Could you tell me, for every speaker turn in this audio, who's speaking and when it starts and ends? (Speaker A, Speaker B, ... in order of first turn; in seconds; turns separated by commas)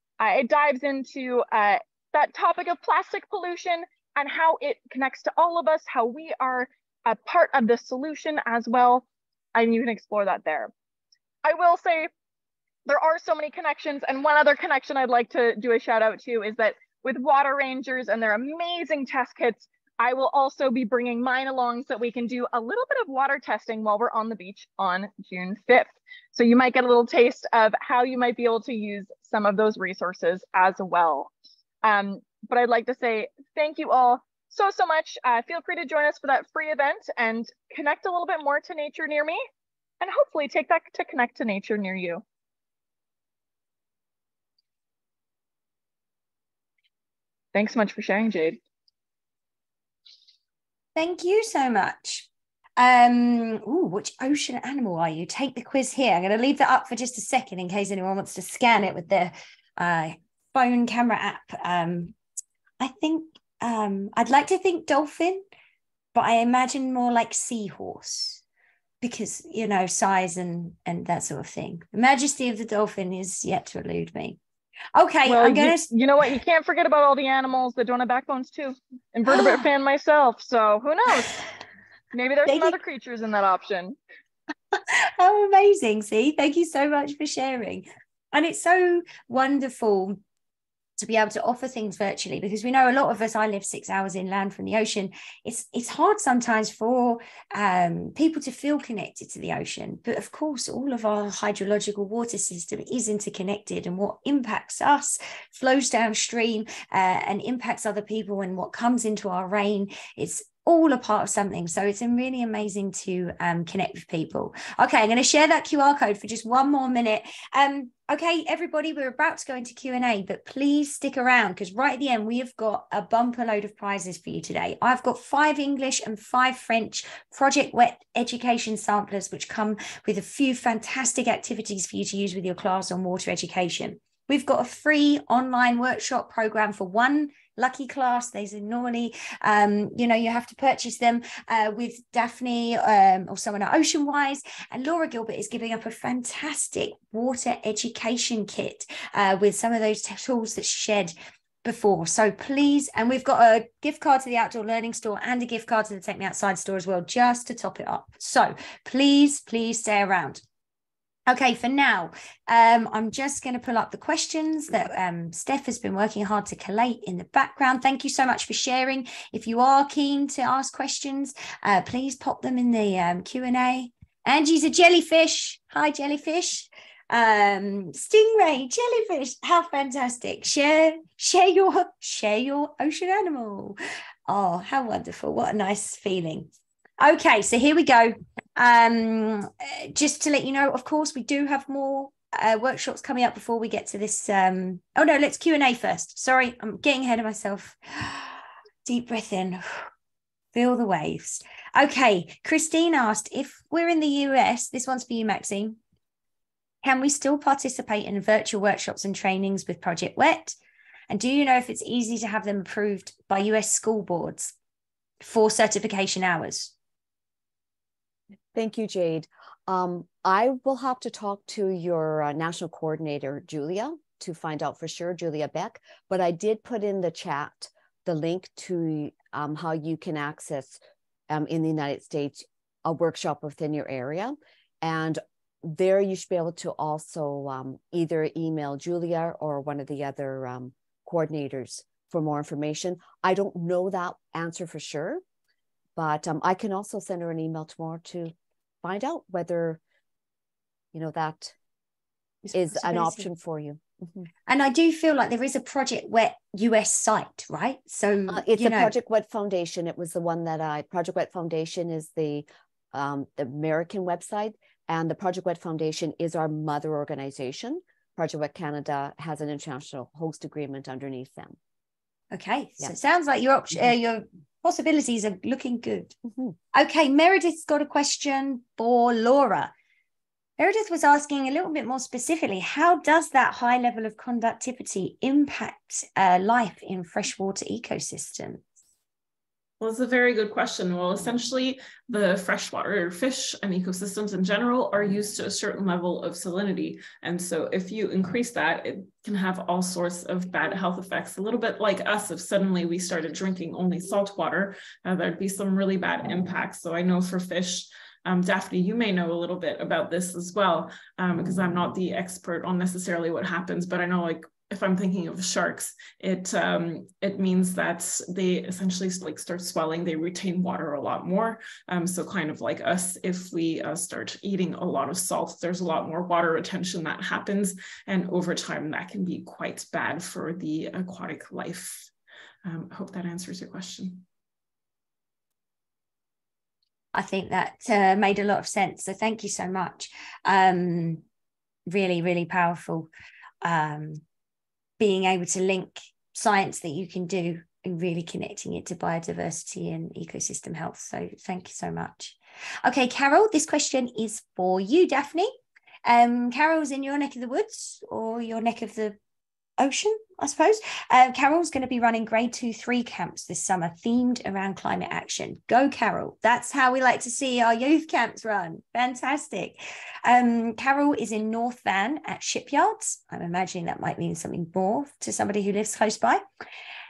Speaker A: 0.2-10.7, Speaker A: 11.4-12.1, Speaker A: 12.9-31.3, Speaker A: 31.8-39.4, Speaker A: 40.0-42.2, Speaker A: 47.5-48.6, Speaker B: 51.0-52.3, Speaker B: 52.8-62.1, Speaker B: 62.8-65.4, Speaker B: 66.1-68.4, Speaker B: 69.0-74.4, Speaker B: 74.9-75.9, Speaker A: 75.2-81.5, Speaker B: 79.3-79.7, Speaker A: 82.1-84.0, Speaker B: 82.5-82.8, Speaker B: 84.8-90.2, Speaker B: 91.0-160.4, Speaker B: 161.3-199.6, Speaker B: 200.5-205.8, Speaker B: 206.8-210.6, Speaker B: 211.1-214.5, Speaker B: 215.2-216.7, Speaker C: 218.6-245.2, Speaker C: 245.9-249.8, Speaker C: 250.9-251.6, Speaker B: 252.4-253.3, Speaker C: 252.5-254.3, Speaker B: 254.5-258.9, Speaker C: 258.3-271.6, Speaker B: 272.3-276.1, Speaker B: 276.7-279.7, Speaker B: 280.6-288.6, Speaker D: 289.8-332.1, Speaker D: 332.6-334.2, Speaker B: 337.1-341.2, Speaker B: 341.9-343.1, Speaker B: 343.6-344.2, Speaker B: 345.0-355.5, Speaker B: 356.1-359.2, Speaker B: 359.8-376.4